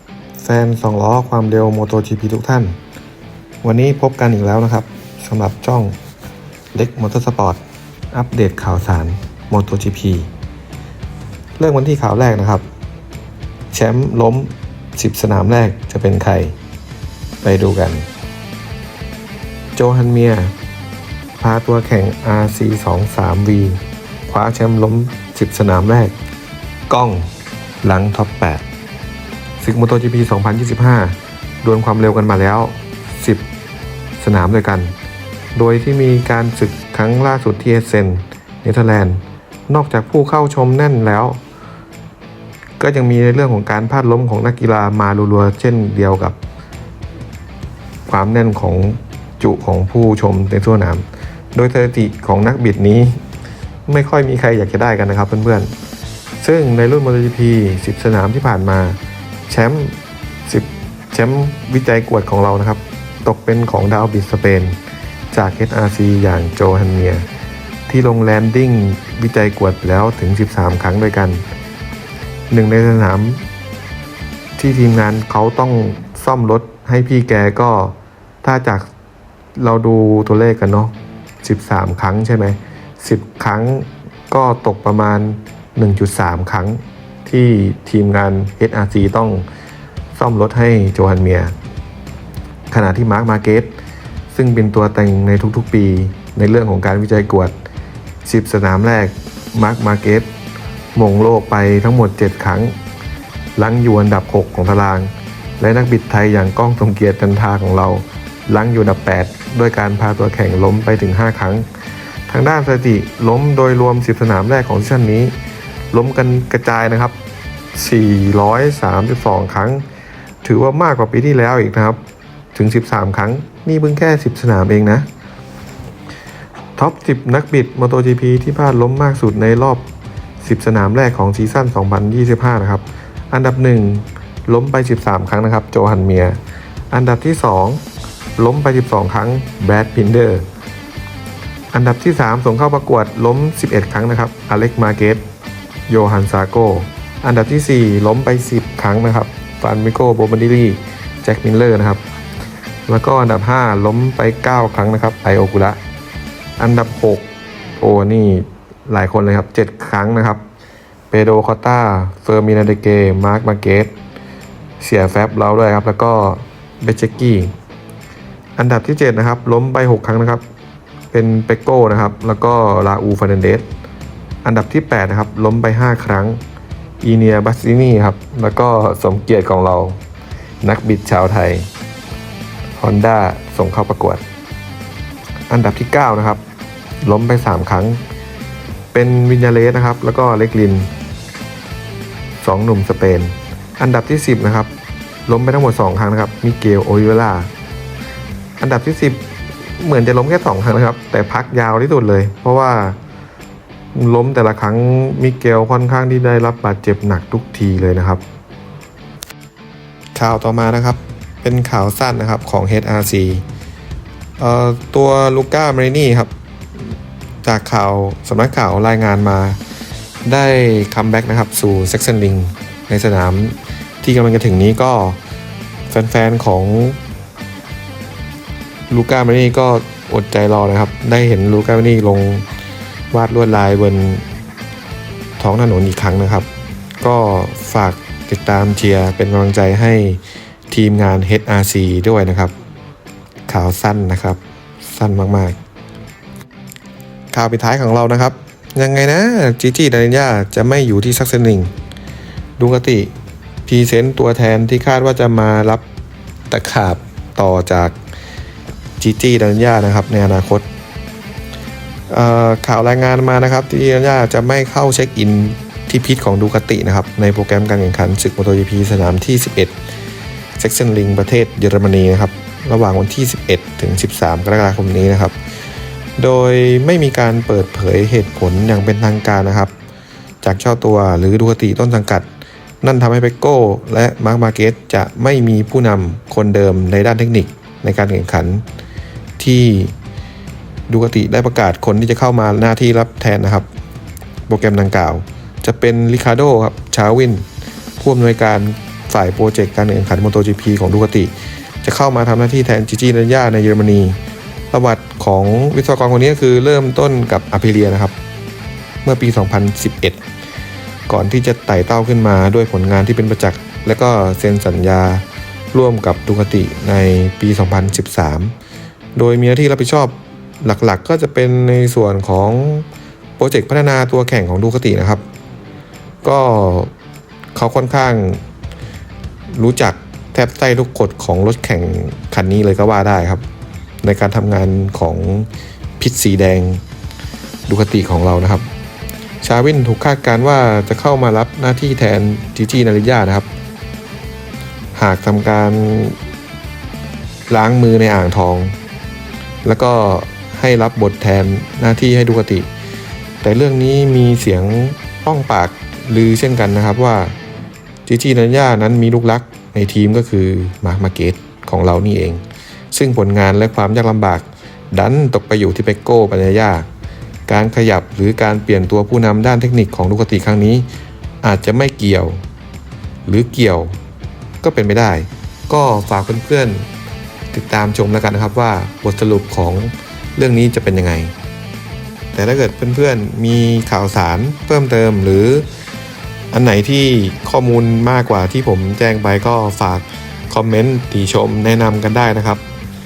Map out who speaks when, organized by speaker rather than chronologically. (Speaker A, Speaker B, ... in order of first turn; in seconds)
Speaker A: 0.4-2.8, 3.6-6.0, 6.7-7.6, 8.1-10.3, 11.6-12.6, 13.7-16.6, 17.4-18.1, 19.8-20.5, 21.4-26.1, 26.9-27.3, 27.8-28.6, 29.6-33.4, 34.2-34.9, 35.5-41.4, 42.8-46.4, 48.1-53.2, 53.9-55.7, 56.4-64.8, 65.3-67.3, 67.9-71.4, 72.5-73.5, 74.6-78.9, 79.6-89.5, 90.1-91.5, 92.7-93.7, 94.3-97.5, 98.2-100.3, 101.0-102.8, 103.6-111.7, 112.3-115.3, 115.9-117.1, 117.7-119.8, 120.4-122.0, 122.5-125.1, 126.8-129.8, 130.4-136.4, 136.9-137.8, 138.4-140.4, 141.7-145.2, 145.9-152.0, 152.9-155.8, 156.6-157.2, 157.8-160.4, 161.1-163.9, 164.8-167.5, 168.6-170.4, 171.1-173.6, 174.4-176.4, 177.0-180.0, 180.6-181.7, 182.8-184.2, 185.5-186.4, 187.0-188.0, 188.9-190.9, 192.4-194.7, 195.2-197.5, 198.6-199.2, 199.8-203.0, 203.9-208.2, 210.1-213.4, 214.4-216.3, 217.4-219.6, 220.2-225.2, 225.9-227.0, 228.9-232.4, 233.1-234.2, 235.4-236.5, 237.0-242.5, 243.5-245.6, 247.3-251.7, 252.6-253.1, 253.7-255.8, 256.5-257.9, 259.0-260.7, 262.1-269.7, 270.6-275.4, 276.2-279.7, 280.4-282.3, 282.8-288.6, 289.4-289.9, 290.9-293.7, 294.5-297.4, 298.0-301.3, 301.8-304.2, 304.7-308.1, 309.0-310.2, 311.1-318.5, 319.1-322.8, 323.4-325.2, 326.2-326.9, 327.6-328.4, 329.5-333.4, 334.0-335.5, 336.0-336.8, 337.7-338.7, 339.4-343.5, 344.9-346.1, 347.5-348.8, 349.6-352.7, 353.4-357.3, 358.1-366.9, 367.5-370.9, 371.4-372.4, 373.2-373.9, 374.6-376.9, 377.5-381.3, 382.3-385.6, 386.5-392.6